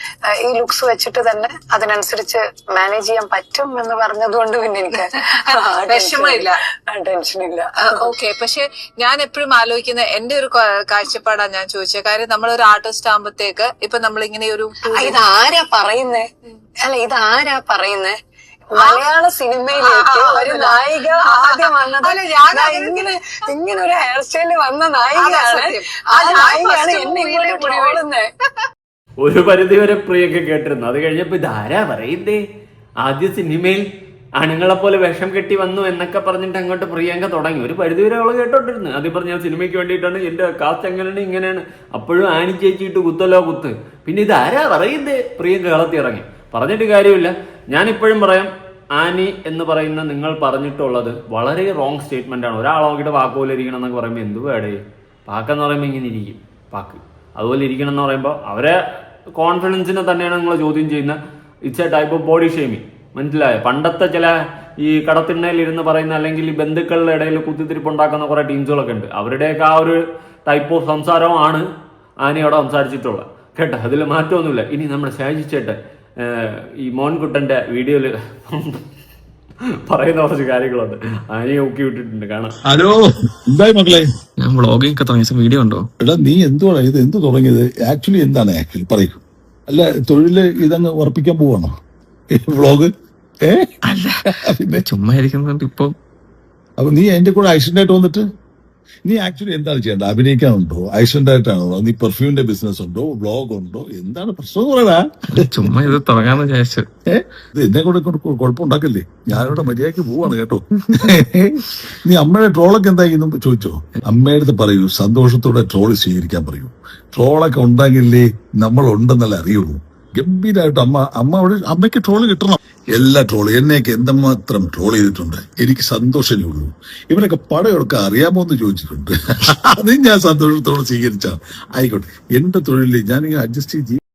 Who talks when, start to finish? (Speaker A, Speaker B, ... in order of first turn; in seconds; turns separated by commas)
Speaker A: 0.3-8.2, Speaker B: 4.9-6.6, Speaker B: 7.8-15.2, Speaker A: 14.9-16.3, Speaker A: 16.8-18.1, Speaker A: 18.7-28.3, Speaker B: 18.8-19.0, Speaker B: 19.8-23.1, Speaker B: 25.1-28.0, Speaker C: 29.2-32.4, Speaker C: 33.0-33.8, Speaker C: 34.4-58.8, Speaker C: 59.4-71.6, Speaker C: 72.2-78.8, Speaker C: 79.9-82.5, Speaker D: 82.6-84.1, Speaker E: 84.4-85.9, Speaker D: 86.0-91.7, Speaker D: 92.3-94.8, Speaker E: 93.9-94.1, Speaker E: 94.7-95.9, Speaker D: 96.8-98.3, Speaker D: 99.0-105.7, Speaker E: 105.3-107.0, Speaker D: 107.1-134.0